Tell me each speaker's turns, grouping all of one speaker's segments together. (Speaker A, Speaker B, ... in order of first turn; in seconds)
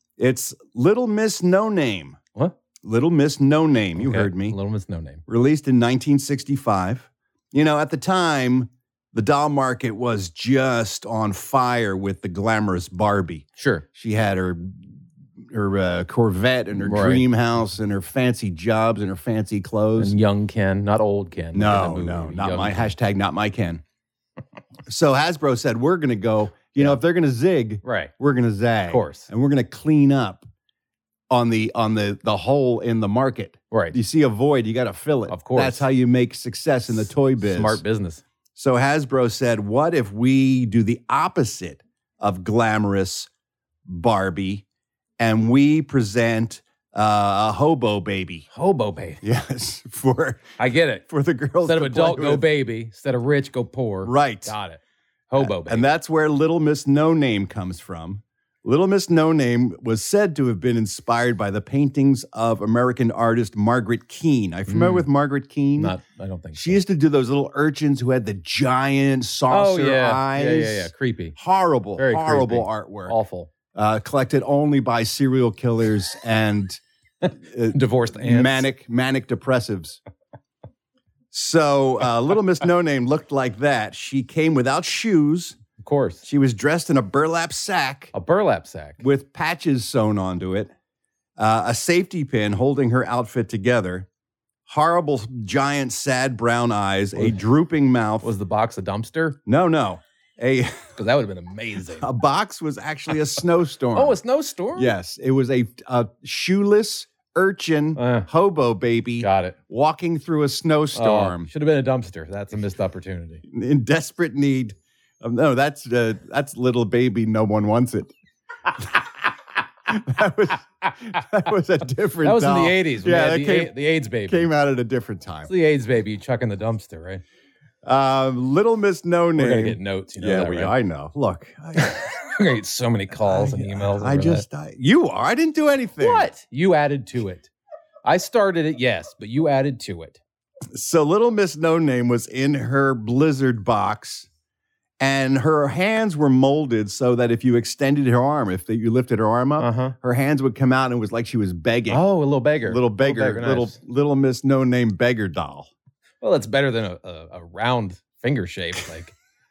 Speaker A: 0.2-2.2, 2.8-4.6, 5.3-14.9, 15.5-20.1, 21.5-23.8, 24.9-30.5, 31.3-37.8, 38.5-43.3, 43.9-44.6, 45.2-48.5, 49.2-50.5, 51.1-52.5, 54.0-54.5, 55.4-66.0, 66.5-73.2, 73.7-76.8, 77.4-80.0, 81.3-85.6, 86.2-88.1, 89.0-90.7, 91.4-94.1, 94.7-98.3, 99.5-100.9, 102.0-104.2, 104.8-111.5, 113.5-118.1, 119.9-123.8, 124.3-125.5, 127.8-132.0, 133.2-136.3, 140.7-144.3, 145.0-152.1, 152.7-155.7
Speaker B: 4.0-5.2, 13.6-13.9, 16.8-17.3, 20.0-22.9, 27.8-28.1, 28.9-29.3, 33.7-34.0, 35.3-35.9, 37.4-38.2, 48.5-49.2, 50.6-51.1, 51.6-55.9, 64.7-65.1, 65.8-66.8, 69.5-71.4, 72.0-73.5, 77.2-78.7, 85.8-86.2, 88.1-89.0, 98.2-99.4, 101.0-102.1, 103.9-104.9, 108.0-108.3, 109.2-109.6, 110.9-113.4, 122.2-124.5, 125.5-127.2, 129.4-130.7, 131.8-134.4, 136.0-137.5, 138.1-140.2, 149.6-150.0, 151.9-153.8, 156.2-159.1